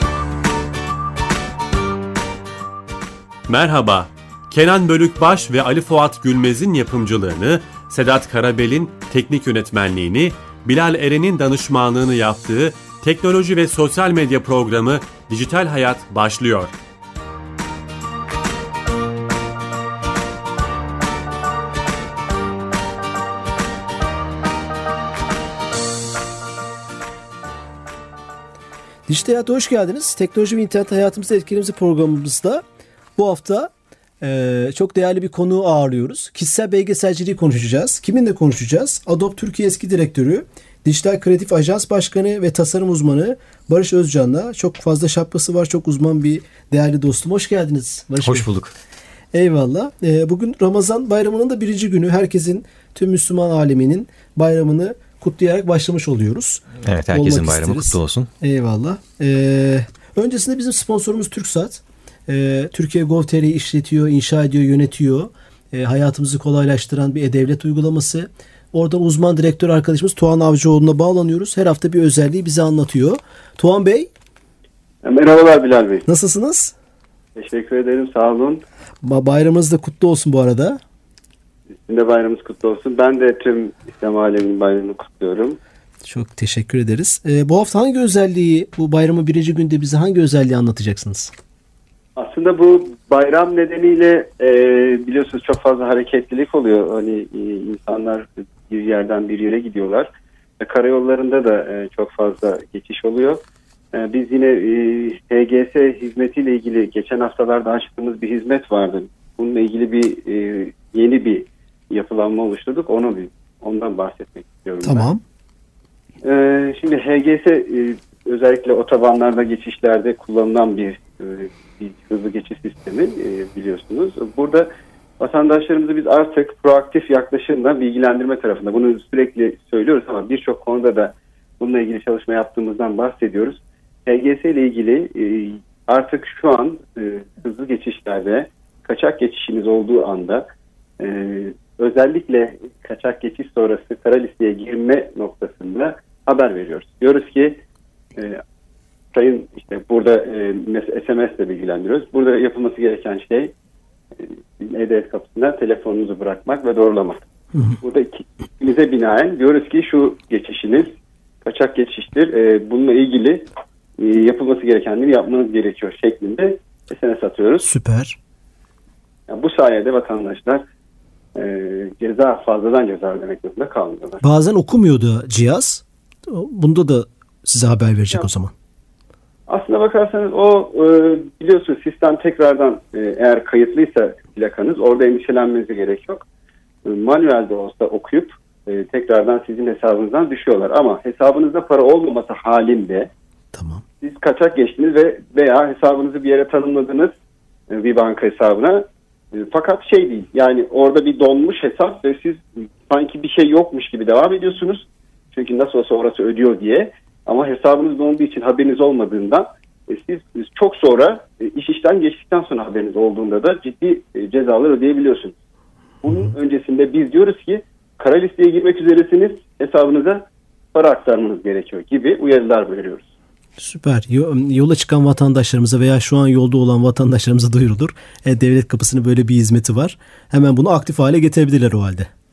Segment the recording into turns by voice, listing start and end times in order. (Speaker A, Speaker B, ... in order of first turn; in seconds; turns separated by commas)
Speaker A: 3.5-16.7, Speaker B: 29.1-32.6, Speaker B: 33.1-48.5, Speaker C: 48.2-48.7, Speaker B: 49.3-74.1, Speaker C: 56.8-58.3, Speaker D: 75.0-76.0, Speaker B: 76.1-76.7, Speaker D: 77.3-78.6, Speaker B: 79.0-80.8, Speaker D: 81.8-85.6, Speaker B: 86.0-91.3, Speaker D: 92.2-100.1, Speaker D: 100.6-103.4, Speaker D: 103.9-115.1, Speaker B: 114.8-115.2, Speaker D: 116.2-140.4, Speaker D: 141.0-147.6, Speaker D: 148.2-148.4, Speaker D: 149.1-153.5, Speaker D: 154.2-157.2, Speaker D: 157.8-160.9, Speaker D: 161.4-163.4, Speaker D: 164.0-167.7, Speaker B: 167.6-168.2, Speaker D: 169.3-170.6, Speaker D: 171.3-174.2, Speaker B: 174.2-178.5, Speaker D: 179.5-186.2, Speaker D: 186.8-193.1, Speaker B: 193.5-193.8, Speaker D: 194.0-197.1, Speaker D: 197.7-215.3, Speaker D: 216.0-223.1, Speaker B: 223.6-232.1